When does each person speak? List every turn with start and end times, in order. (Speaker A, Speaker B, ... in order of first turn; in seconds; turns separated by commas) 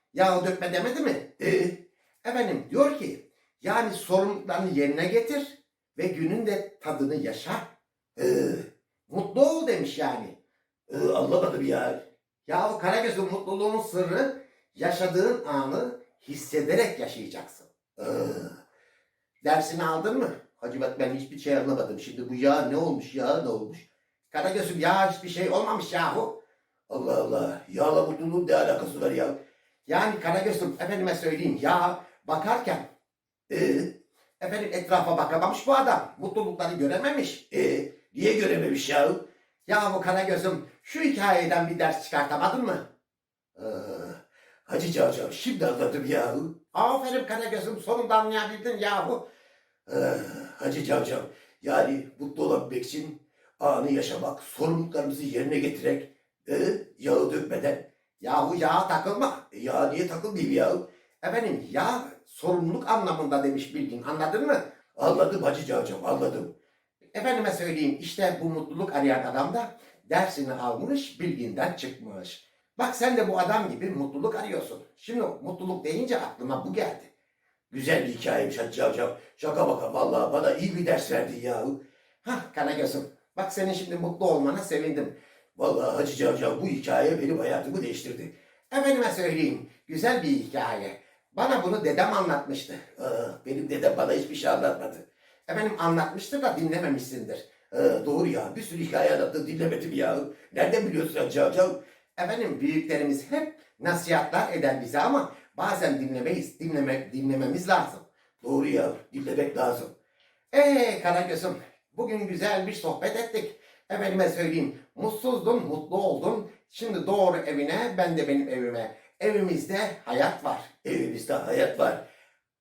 Speaker A: 0.1-1.3, Speaker B: 1.4-1.8, Speaker A: 2.2-7.7, Speaker B: 8.2-8.7, Speaker A: 9.1-10.4, Speaker B: 10.9-12.0, Speaker A: 12.5-17.7, Speaker B: 18.0-18.5, Speaker A: 19.4-26.4, Speaker B: 26.9-29.4, Speaker A: 29.9-32.8, Speaker B: 33.5-33.9, Speaker A: 34.4-37.5, Speaker B: 37.5-39.2, Speaker A: 39.7-42.9, Speaker B: 43.6-46.5, Speaker A: 46.7-49.2, Speaker B: 49.9-57.9, Speaker A: 58.2-59.5, Speaker B: 59.5-60.8, Speaker A: 61.2-64.6, Speaker B: 65.0-66.5, Speaker A: 67.1-77.1, Speaker B: 77.7-81.8, Speaker A: 82.2-85.1, Speaker B: 85.6-88.3, Speaker A: 88.7-93.0, Speaker B: 93.0-95.0, Speaker A: 95.5-97.5, Speaker B: 97.7-101.8, Speaker A: 102.2-108.0, Speaker B: 108.4-109.9, Speaker A: 110.5-120.7, Speaker B: 120.8-122.0